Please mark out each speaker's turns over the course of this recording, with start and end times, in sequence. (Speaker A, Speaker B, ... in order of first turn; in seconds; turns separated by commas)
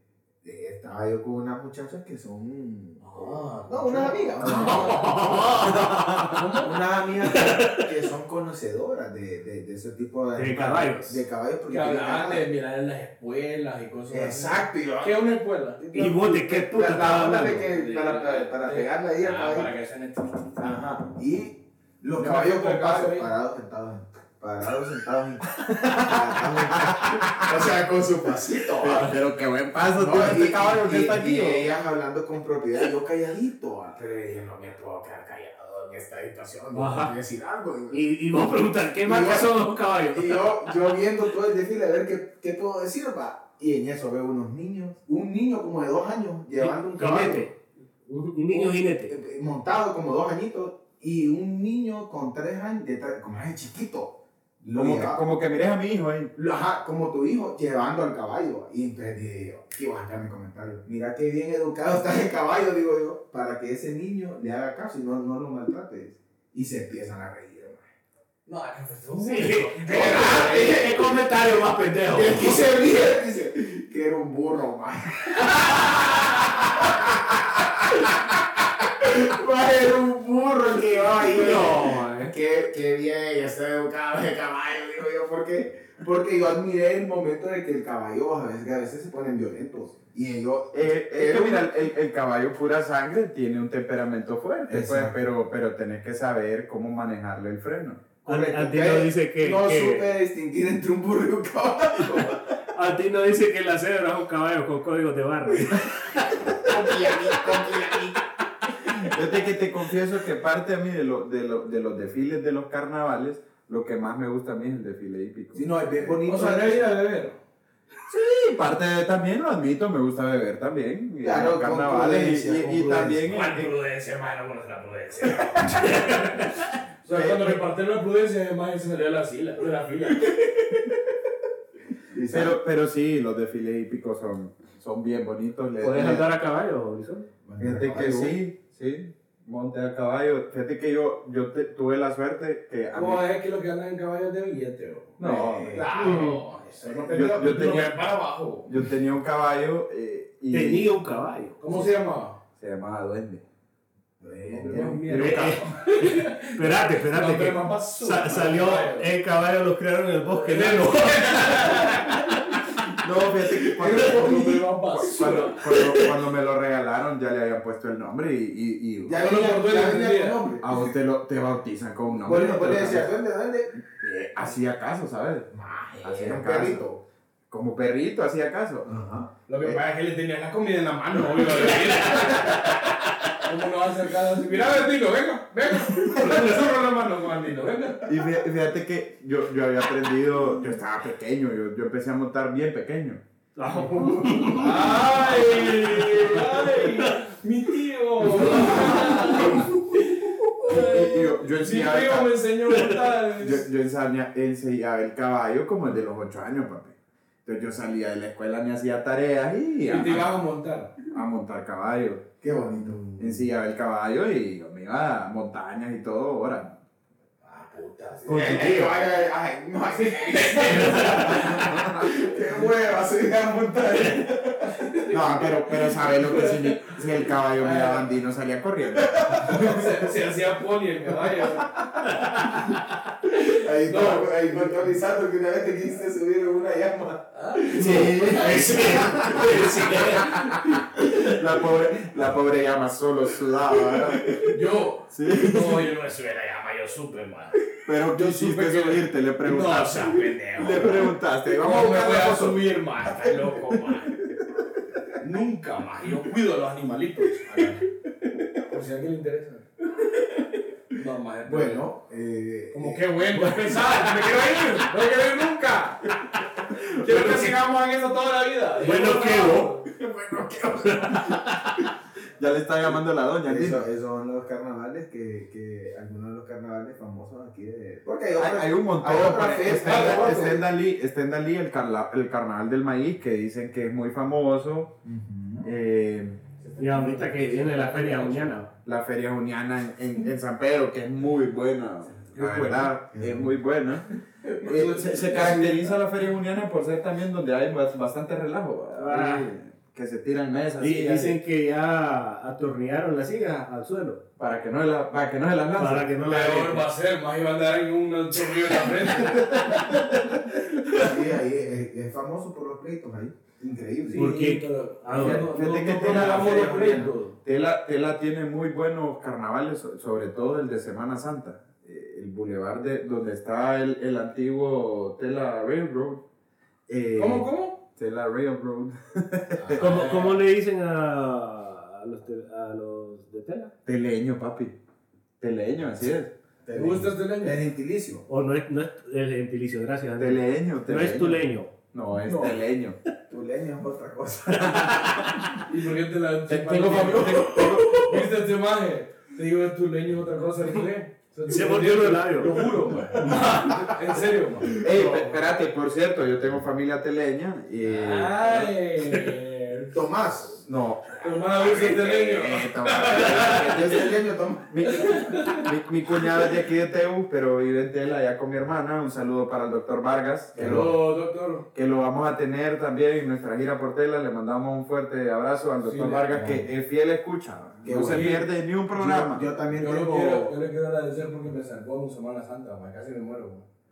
Speaker A: 0.4-12.4, Speaker B: 3.0-5.2, Speaker C: 4.4-6.7, Speaker B: 6.3-6.6, Speaker C: 7.2-7.9, Speaker C: 10.3-11.2, Speaker B: 11.7-16.1, Speaker A: 14.1-15.2, Speaker A: 15.8-19.7, Speaker C: 15.9-17.7, Speaker B: 17.4-20.7, Speaker A: 20.6-29.1, Speaker B: 22.1-23.3, Speaker D: 25.7-27.7, Speaker D: 28.7-31.7, Speaker A: 29.9-38.5, Speaker C: 36.7-37.1, Speaker C: 37.9-40.7, Speaker A: 39.0-47.5, Speaker C: 46.6-47.5, Speaker C: 48.1-49.1, Speaker A: 48.5-55.2, Speaker D: 54.7-56.3, Speaker A: 56.3-67.8, Speaker B: 68.5-70.8, Speaker C: 69.2-72.7, Speaker A: 69.9-71.2, Speaker A: 72.1-91.7, Speaker C: 81.2-82.3, Speaker D: 90.7-98.0, Speaker A: 94.7-95.1, Speaker A: 98.2-102.6, Speaker C: 98.2-100.1, Speaker C: 102.7-107.8, Speaker A: 106.6-108.3, Speaker D: 109.1-115.7, Speaker A: 115.5-116.9, Speaker B: 116.1-117.4, Speaker D: 118.1-123.7, Speaker A: 121.2-123.5, Speaker B: 123.3-126.5, Speaker C: 125.8-126.2, Speaker B: 127.0-130.9, Speaker D: 127.1-127.6, Speaker A: 132.1-132.6, Speaker D: 132.3-136.2, Speaker C: 135.8-137.3, Speaker A: 137.4-138.3, Speaker D: 137.6-143.2, Speaker B: 142.9-148.7, Speaker D: 145.2-146.3, Speaker A: 145.2-146.3, Speaker C: 145.9-146.4, Speaker A: 146.8-147.3, Speaker D: 146.8-148.1, Speaker D: 148.6-150.9, Speaker C: 150.5-151.8, Speaker B: 151.6-152.4, Speaker D: 152.6-153.4, Speaker A: 154.2-154.9, Speaker B: 154.3-159.1, Speaker D: 154.7-155.6, Speaker C: 155.1-162.6, Speaker B: 160.4-162.4, Speaker D: 162.9-169.3, Speaker B: 163.7-166.0, Speaker A: 169.0-170.8, Speaker B: 169.2-170.4, Speaker D: 170.6-173.1, Speaker A: 172.2-173.7, Speaker D: 173.8-175.5, Speaker A: 175.5-177.0, Speaker D: 176.0-176.8, Speaker D: 177.5-178.9, Speaker A: 178.8-179.3, Speaker B: 179.5-188.0, Speaker D: 188.1-193.2, Speaker C: 193.6-197.2, Speaker A: 193.7-194.7, Speaker B: 194.5-203.7, Speaker C: 198.3-199.6, Speaker D: 200.6-202.4, Speaker D: 203.2-210.4, Speaker B: 209.8-210.9, Speaker D: 211.1-212.2, Speaker A: 212.4-213.4, Speaker D: 213.2-216.7, Speaker B: 217.4-218.9, Speaker C: 218.2-219.0, Speaker A: 218.2-225.0, Speaker B: 219.9-221.9, Speaker C: 220.7-221.8, Speaker B: 225.0-226.5, Speaker D: 225.1-229.8, Speaker B: 227.6-228.1, Speaker A: 229.1-229.4, Speaker B: 229.3-231.8, Speaker A: 233.3-239.6, Speaker B: 233.8-234.8, Speaker B: 237.3-240.4, Speaker D: 237.7-239.6, Speaker C: 238.7-239.9, Speaker D: 241.2-244.4, Speaker A: 243.9-244.5, Speaker B: 244.4-254.3, Speaker D: 245.1-245.9, Speaker D: 247.8-252.6, Speaker B: 255.2-259.7, Speaker B: 260.9-261.9, Speaker A: 261.4-263.4, Speaker B: 262.7-266.2, Speaker C: 263.6-264.8, Speaker B: 266.8-269.9, Speaker C: 267.0-267.6, Speaker C: 268.8-269.8, Speaker A: 269.9-271.1, Speaker C: 270.8-271.9, Speaker D: 272.4-273.9, Speaker A: 273.4-280.6, Speaker D: 278.3-284.9, Speaker B: 279.8-280.5, Speaker A: 285.0-285.7, Speaker D: 285.6-286.4, Speaker B: 286.6-288.6, Speaker C: 286.8-288.7, Speaker D: 288.8-294.1, Speaker A: 292.4-293.5, Speaker B: 292.4-292.7, Speaker D: 294.6-301.4, Speaker B: 294.6-295.9, Speaker C: 298.9-299.5, Speaker C: 300.8-304.2, Speaker D: 304.4-306.1, Speaker C: 305.8-306.9, Speaker B: 306.2-310.1, Speaker A: 310.9-314.3, Speaker B: 314.0-317.4, Speaker C: 314.1-315.5, Speaker D: 315.1-326.2, Speaker A: 315.1-317.1, Speaker D: 326.9-330.0, Speaker B: 327.1-327.8, Speaker B: 329.6-330.4, Speaker C: 329.8-333.7, Speaker D: 333.9-334.7, Speaker D: 335.4-336.3, Speaker A: 336.6-338.2, Speaker B: 336.7-337.6, Speaker C: 338.3-341.7, Speaker D: 340.2-343.0, Speaker B: 342.3-342.6, Speaker A: 343.3-345.1, Speaker C: 344.6-345.6, Speaker B: 345.6-355.4, Speaker C: 346.5-348.1, Speaker D: 346.7-348.1, Speaker C: 351.5-353.9, Speaker D: 354.7-358.7, Speaker B: 357.8-359.9, Speaker A: 359.9-360.6, Speaker D: 360.6-364.1, Speaker B: 361.2-363.9, Speaker A: 362.0-365.1, Speaker D: 364.7-370.9, Speaker B: 365.0-365.7, Speaker B: 370.6-371.7, Speaker A: 370.6-370.9, Speaker D: 371.7-379.5, Speaker B: 375.8-376.6, Speaker A: 377.8-380.5, Speaker B: 377.8-378.5, Speaker B: 379.7-383.6